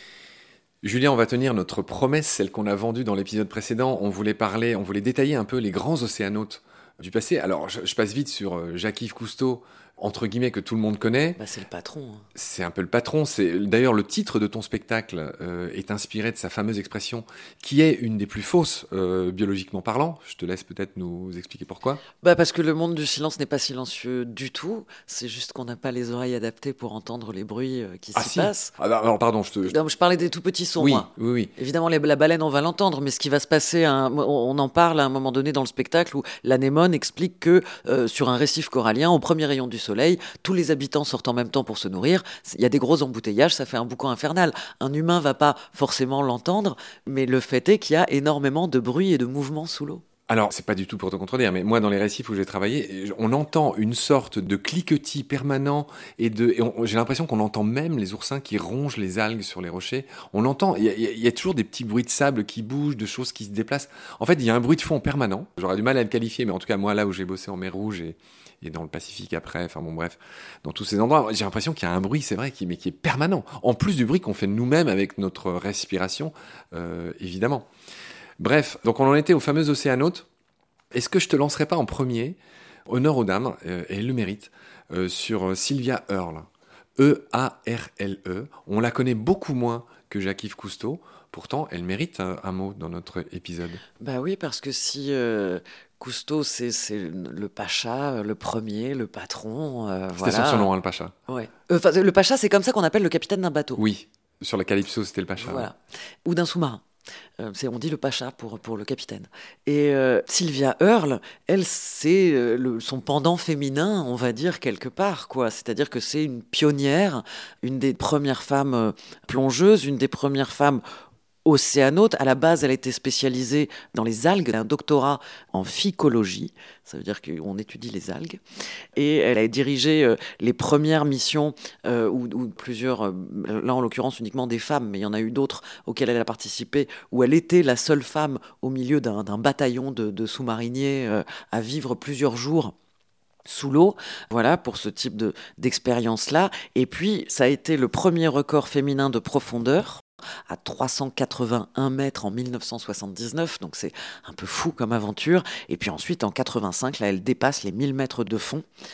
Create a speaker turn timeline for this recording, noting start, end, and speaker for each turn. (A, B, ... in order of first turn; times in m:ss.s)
0:00.8-0:11.4 A
0:11.4-0:12.2 B
0:12.4-0:22.0 A
0:22.2-0:28.7 B
0:28.2-0:29.8 A
0:29.7-0:50.0 B
0:30.8-0:31.5 A
0:50.3-1:17.7 A
1:18.4-1:20.3 A
1:20.9-1:33.8 A
1:34.0-1:40.7 B
1:40.2-1:41.1 A
1:41.3-1:43.8 B
1:43.8-1:45.7 A
1:45.4-1:46.8 B
1:47.4-2:00.8 B
2:01.4-2:08.4 B
2:09.0-2:22.7 B
2:23.5-2:38.6 B